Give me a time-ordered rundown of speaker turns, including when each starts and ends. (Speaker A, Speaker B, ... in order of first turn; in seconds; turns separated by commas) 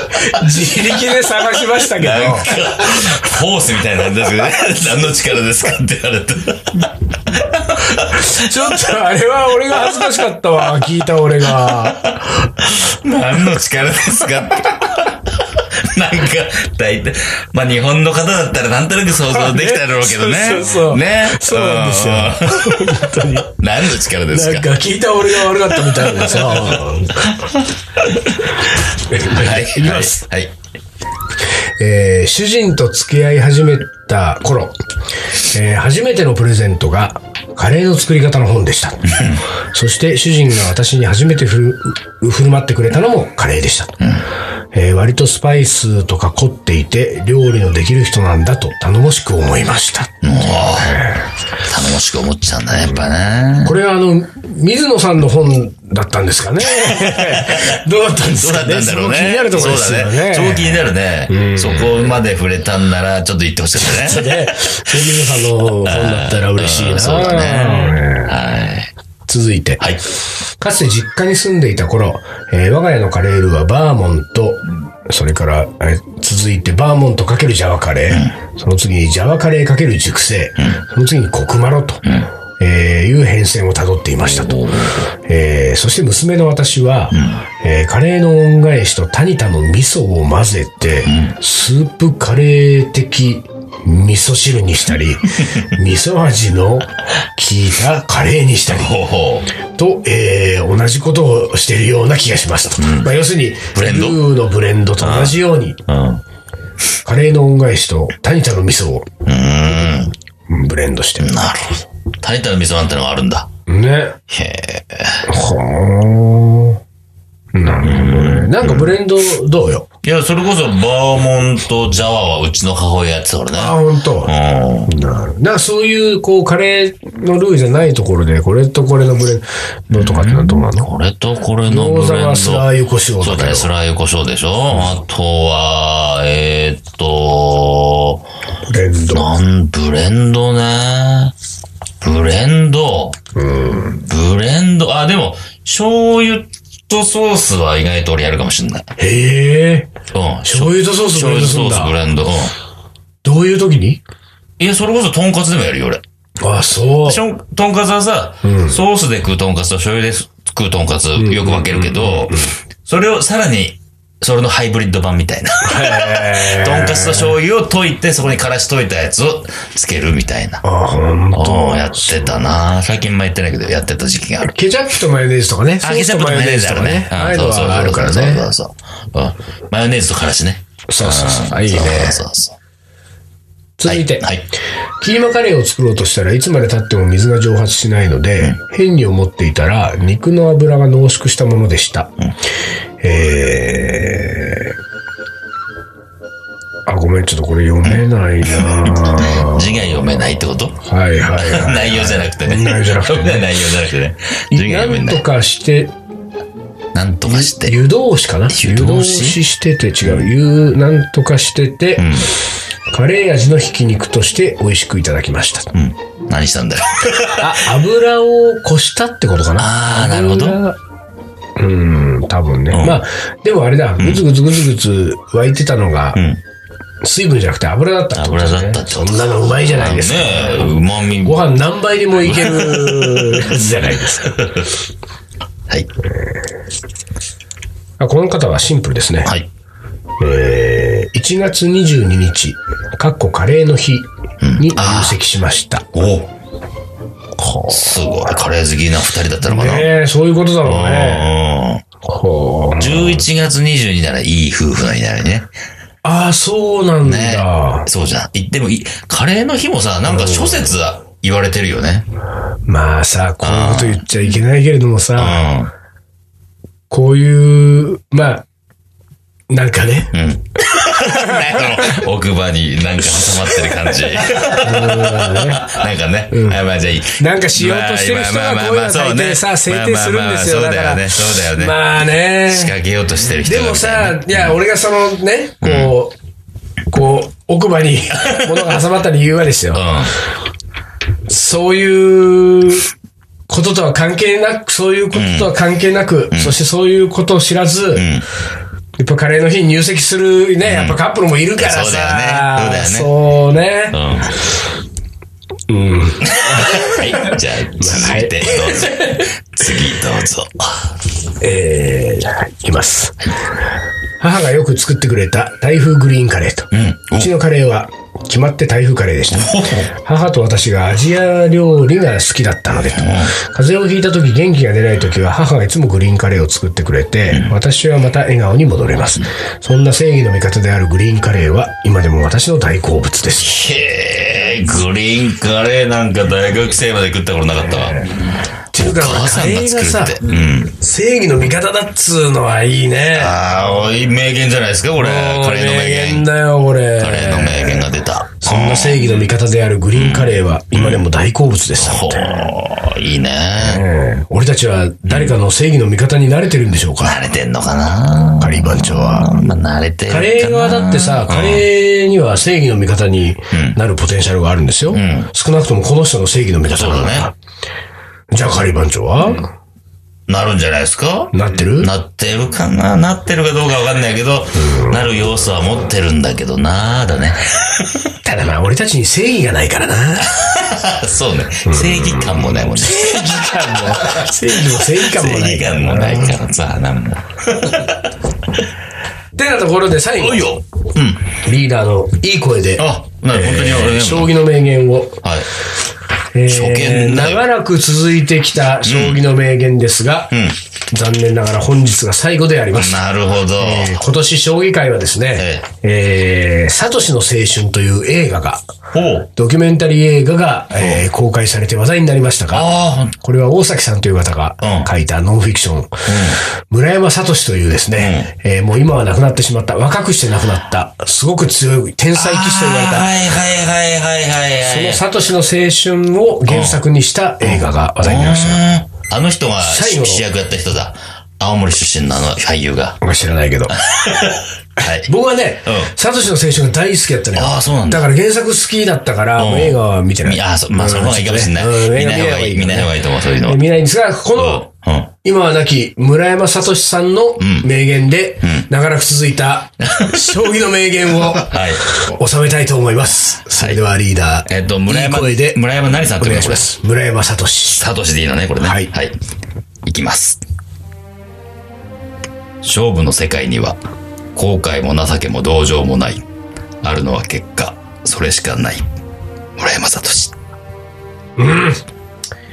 Speaker A: 0.1-3.3, Speaker B: 1.7-8.3, Speaker A: 7.8-12.6, Speaker B: 11.4-24.7, Speaker A: 19.3-23.6, Speaker A: 24.3-27.4, Speaker B: 25.6-28.3, Speaker A: 28.6-30.2, Speaker B: 29.1-30.5, Speaker A: 31.8-34.7, Speaker A: 35.4-44.0, Speaker B: 39.1-39.4, Speaker A: 44.7-51.3, Speaker B: 50.2-51.1, Speaker B: 51.6-53.8, Speaker A: 53.6-62.2, Speaker B: 56.6-65.0, Speaker A: 63.8-68.3, Speaker B: 65.8-68.9, Speaker A: 69.3-69.8, Speaker A: 70.6-82.0, Speaker B: 78.1-78.3, Speaker A: 82.6-99.0, Speaker B: 84.2-85.0, Speaker B: 87.1-87.4, Speaker B: 91.0-91.3, Speaker B: 98.7-99.5, Speaker A: 99.7-105.8, Speaker B: 102.8-103.1, Speaker B: 103.7-104.2, Speaker B: 105.0-106.2, Speaker A: 107.0-109.1, Speaker B: 109.2-110.1, Speaker A: 110.5-111.5, Speaker B: 111.2-113.5, Speaker A: 113.7-114.2, Speaker B: 114.3-115.3, Speaker A: 115.3-116.8, Speaker A: 117.5-119.9, Speaker B: 117.8-119.0, Speaker B: 120.0-124.9, Speaker A: 123.5-124.3, Speaker A: 124.8-130.9, Speaker B: 129.9-132.7, Speaker A: 131.7-133.7, Speaker B: 133.2-138.3, Speaker A: 138.7-139.3, Speaker B: 139.1-141.3, Speaker B: 142.0-143.2, Speaker A: 143.3-144.0, Speaker B: 143.8-148.9, Speaker A: 149.0-149.9, Speaker B: 150.1-152.5, Speaker A: 150.4-152.0, Speaker A: 153.2-154.0, Speaker B: 154.6-156.0, Speaker A: 156.4-157.2, Speaker B: 157.0-170.6, Speaker A: 158.4-158.8, Speaker A: 161.2-162.5, Speaker A: 165.6-167.3, Speaker A: 170.6-172.4, Speaker B: 171.3-174.5, Speaker A: 174.4-178.5, Speaker B: 175.8-182.6, Speaker A: 180.9-182.2, Speaker A: 183.8-184.3, Speaker B: 183.8-184.4, Speaker A: 185.0-192.1, Speaker A: 193.0-194.7, Speaker A: 196.9-199.9, Speaker B: 197.8-200.8, Speaker A: 200.8-203.5, Speaker B: 201.3-205.2, Speaker A: 204.5-205.9, Speaker B: 206.9-207.8, Speaker A: 207.2-212.3, Speaker B: 208.5-209.4, Speaker B: 212.0-212.3, Speaker A: 212.9-215.7, Speaker B: 215.7-217.6, Speaker A: 217.4-220.8, Speaker B: 219.6-220.6, Speaker A: 221.6-226.2, Speaker B: 222.7-223.0, Speaker B: 224.0-224.2, Speaker B: 226.1-226.4, Speaker A: 227.0-234.4, Speaker B: 228.1-231.4, Speaker B: 232.2-234.7, Speaker A: 238.0-239.3, Speaker A: 240.2-245.9, Speaker B: 244.4-245.2, Speaker B: 245.9-246.3, Speaker A: 247.4-248.4, Speaker B: 247.7-249.9, Speaker A: 249.4-251.3, Speaker B: 250.6-251.8, Speaker A: 252.0-253.2, Speaker B: 252.8-255.5, Speaker A: 256.0-257.9, Speaker B: 257.0-262.1, Speaker A: 260.1-260.7, Speaker A: 262.7-265.4, Speaker B: 263.4-264.3, Speaker B: 265.1-265.7, Speaker A: 266.9-268.4, Speaker A: 269.5-270.1, Speaker B: 270.1-281.8, Speaker A: 270.8-272.0, Speaker A: 273.2-275.8, Speaker A: 276.3-276.6, Speaker A: 277.2-282.7, Speaker B: 282.4-284.6, Speaker A: 283.4-286.1, Speaker B: 285.6-285.9, Speaker A: 286.9-289.9, Speaker B: 289.7-290.1, Speaker A: 291.3-292.9, Speaker A: 293.5-298.1, Speaker B: 295.1-295.5, Speaker B: 296.3-296.6, Speaker B: 297.9-298.2, Speaker A: 299.0-304.0, Speaker B: 300.6-301.0, Speaker B: 301.6-303.1, Speaker B: 303.9-304.4, Speaker A: 305.7-309.3, Speaker B: 306.2-310.9, Speaker A: 311.4-313.3, Speaker A: 314.2-333.6, Speaker B: 316.7-317.3, Speaker B: 319.3-319.9, Speaker B: 322.9-323.3, Speaker B: 327.3-327.6, Speaker B: 333.4-338.2, Speaker A: 337.8-338.1, Speaker A: 338.7-343.4, Speaker B: 338.7-340.7, Speaker B: 343.1-346.3, Speaker A: 345.0-352.5, Speaker B: 347.0-349.3, Speaker B: 349.9-351.1, Speaker B: 351.8-353.9, Speaker A: 353.6-357.2, Speaker B: 355.1-355.4, Speaker B: 357.0-361.6, Speaker A: 358.4-359.4, Speaker A: 360.1-367.3, Speaker B: 363.5-363.8, Speaker B: 364.9-365.3, Speaker B: 366.7-367.3, Speaker A: 368.3-369.5, Speaker B: 370.3-378.1, Speaker A: 371.3-371.9, Speaker A: 374.6-375.0, Speaker A: 378.2-380.5, Speaker B: 380.3-388.1, Speaker A: 381.6-386.4, Speaker A: 389.4-390.6, Speaker B: 390.2-391.3, Speaker A: 391.3-395.2, Speaker B: 392.8-394.4, Speaker B: 395.2-395.5, Speaker A: 396.3-400.3, Speaker B: 396.5-397.4, Speaker B: 398.8-399.2, Speaker B: 400.3-400.6, Speaker A: 400.9-403.0, Speaker B: 402.7-404.0, Speaker A: 403.6-408.7, Speaker B: 405.4-405.6, Speaker B: 408.9-409.3, Speaker A: 409.3-423.3, Speaker B: 410.8-411.0, Speaker B: 412.5-413.1, Speaker B: 414.6-414.9, Speaker B: 416.1-416.4, Speaker B: 417.9-418.3, Speaker B: 422.1-425.0, Speaker A: 424.6-428.6, Speaker B: 426.5-426.8, Speaker B: 427.4-433.0, Speaker A: 429.6-430.2, Speaker A: 433.0-433.8, Speaker B: 433.8-435.1, Speaker A: 434.8-444.7, Speaker B: 435.6-435.9, Speaker B: 437.3-438.1, Speaker B: 439.4-443.6, Speaker B: 444.3-445.1, Speaker A: 445.2-455.6, Speaker B: 447.4-447.7, Speaker B: 449.8-450.4, Speaker B: 451.2-452.0, Speaker B: 454.4-456.7, Speaker A: 456.2-457.8, Speaker B: 457.8-459.2, Speaker A: 458.6-458.9, Speaker B: 459.8-460.4, Speaker B: 462.6-463.8, Speaker B: 464.3-466.2, Speaker B: 466.8-468.9, Speaker B: 469.6-470.3, Speaker A: 471.4-471.8